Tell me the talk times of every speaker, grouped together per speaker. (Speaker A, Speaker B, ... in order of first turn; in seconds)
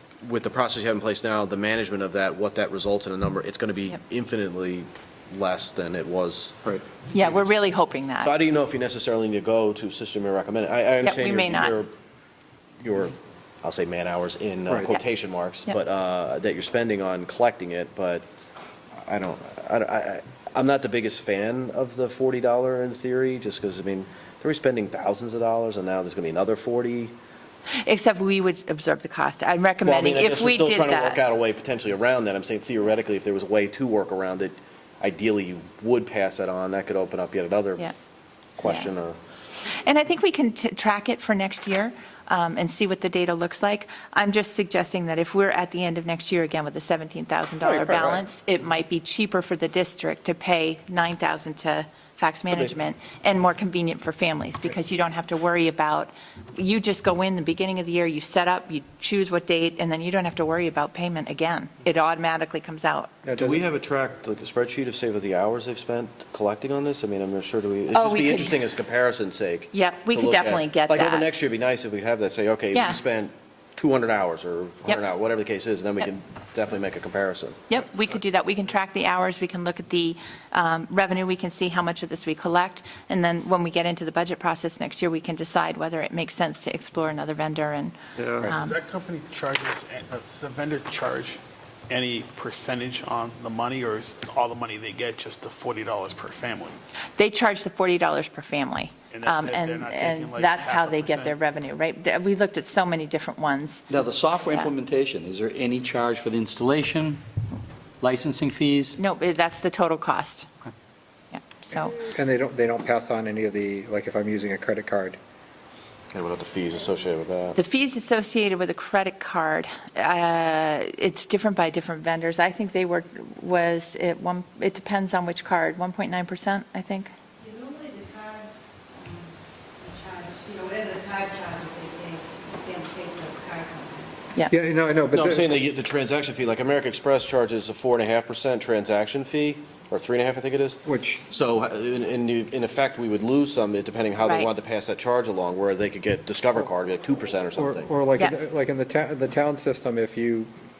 Speaker A: 0.2-7.4, 8.2-11.9, 12.8-18.2, 19.0-27.1, 29.8-37.9, 38.6-39.2, 47.6-48.2, 63.3-77.6, 88.2-88.5, 116.1-117.6, 135.1-147.9
Speaker B: 7.1-8.3, 11.0-11.8, 27.8-31.2, 39.7-63.2, 67.9-68.6, 69.7-71.3, 77.7-88.8, 97.2-103.8, 109.0-110.5, 111.3-112.0, 117.5-127.1
Speaker C: 63.2-63.6, 112.0-115.2, 134.5-135.5, 140.8-141.2, 147.6-150.5
Speaker D: 88.6-96.8, 99.1-101.4
Speaker E: 103.9-107.2, 108.0-109.0
Speaker F: 128.1-128.4, 130.0-132.1, 132.7-133.8